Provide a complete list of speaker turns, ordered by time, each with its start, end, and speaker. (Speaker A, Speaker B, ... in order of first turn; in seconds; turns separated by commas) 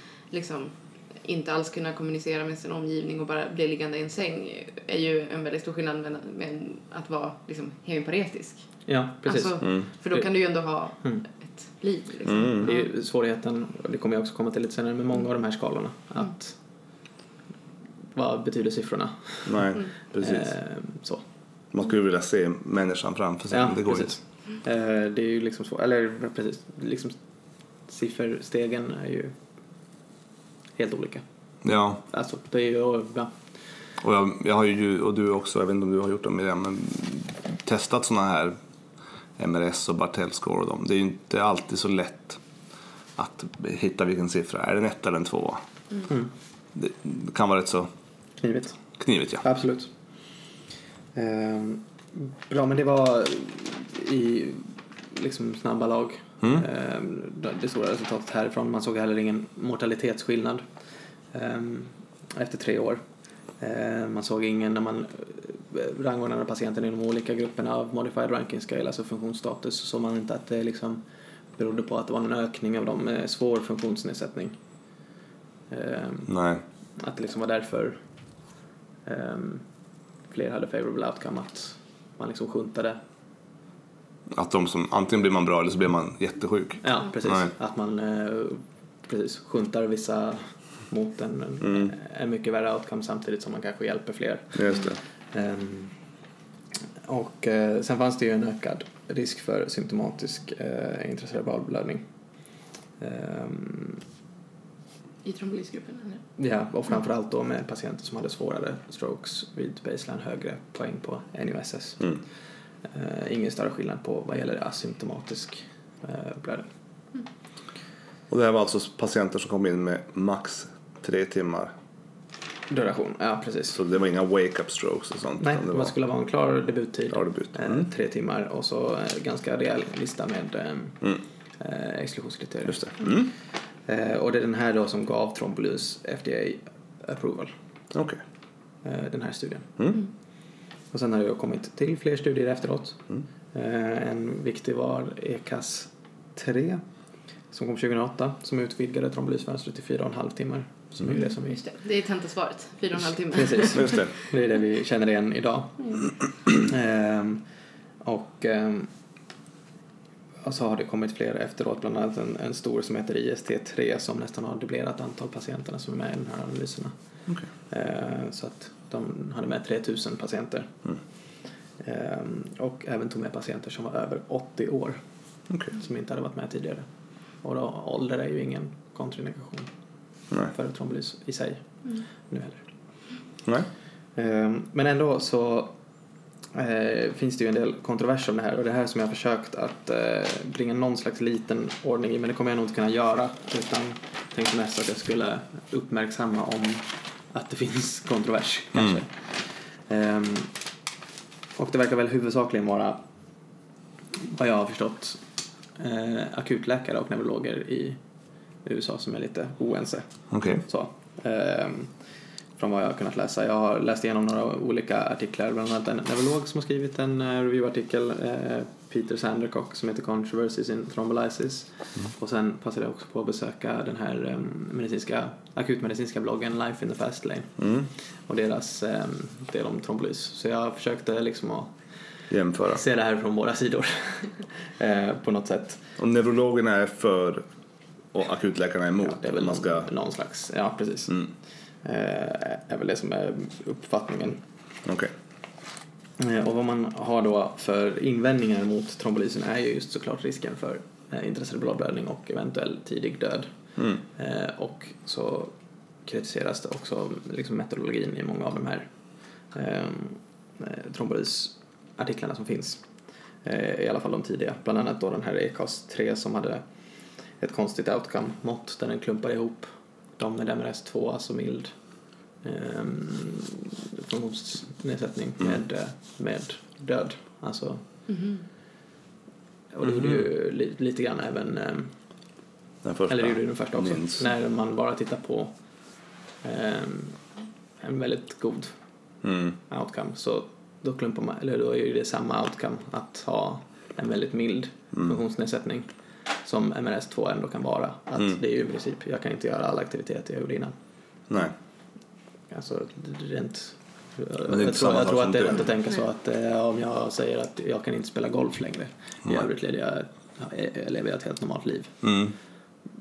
Speaker A: 0.3-12.9, Speaker B: 8.9-10.3, Speaker C: 9.6-9.9, Speaker C: 12.2-12.7, Speaker B: 12.6-16.6, Speaker B: 18.1-21.2, Speaker C: 19.4-20.5, Speaker C: 21.7-24.2, Speaker B: 23.5-27.2, Speaker B: 27.8-29.4, Speaker B: 30.8-31.2, Speaker C: 31.6-32.0, Speaker B: 32.0-33.3, Speaker C: 34.0-38.6, Speaker C: 39.4-42.4, Speaker C: 43.2-45.6, Speaker C: 46.7-47.9, Speaker B: 48.4-48.8, Speaker C: 49.0-49.4, Speaker B: 49.4-49.9, Speaker B: 51.1-60.7, Speaker B: 61.3-63.0, Speaker B: 63.6-74.6, Speaker B: 75.7-76.3, Speaker C: 76.3-76.6, Speaker B: 77.0-78.0, Speaker B: 79.0-79.7, Speaker B: 80.2-83.0, Speaker C: 84.3-87.5, Speaker B: 86.8-96.0, Speaker C: 91.6-91.9, Speaker C: 94.5-95.0, Speaker B: 97.0-102.1, Speaker B: 103.0-104.0, Speaker A: 105.2-106.2, Speaker B: 106.4-112.3, Speaker B: 112.8-116.7, Speaker C: 118.3-121.7, Speaker B: 122.7-123.8, Speaker C: 123.8-125.9, Speaker B: 125.4-133.1, Speaker C: 127.1-127.9, Speaker C: 132.7-133.3, Speaker B: 133.8-137.5, Speaker C: 137.9-138.2, Speaker B: 138.8-139.8, Speaker B: 140.9-146.8, Speaker B: 147.5-151.6, Speaker A: 151.1-154.1, Speaker B: 153.3-157.5, Speaker C: 153.8-154.1, Speaker B: 158.0-158.9, Speaker B: 160.4-170.7, Speaker B: 171.8-175.0, Speaker C: 175.5-175.7, Speaker B: 175.7-182.7, Speaker C: 183.4-183.7, Speaker B: 184.2-185.8, Speaker B: 186.5-200.6, Speaker B: 201.6-203.0, Speaker B: 204.2-205.2, Speaker B: 205.8-235.8, Speaker C: 210.3-210.6, Speaker C: 227.6-227.9, Speaker C: 232.3-232.8, Speaker C: 236.0-237.4, Speaker C: 238.1-239.9, Speaker B: 239.0-244.4, Speaker C: 244.8-245.1, Speaker B: 246.2-277.9, Speaker A: 278.1-278.5, Speaker B: 279.7-282.1, Speaker C: 279.9-280.2, Speaker C: 282.8-284.2, Speaker B: 283.1-287.3, Speaker B: 287.8-288.8, Speaker C: 289.2-289.6, Speaker B: 289.7-300.8, Speaker C: 301.3-301.5, Speaker B: 302.5-312.1, Speaker C: 304.5-305.7, Speaker C: 312.0-312.4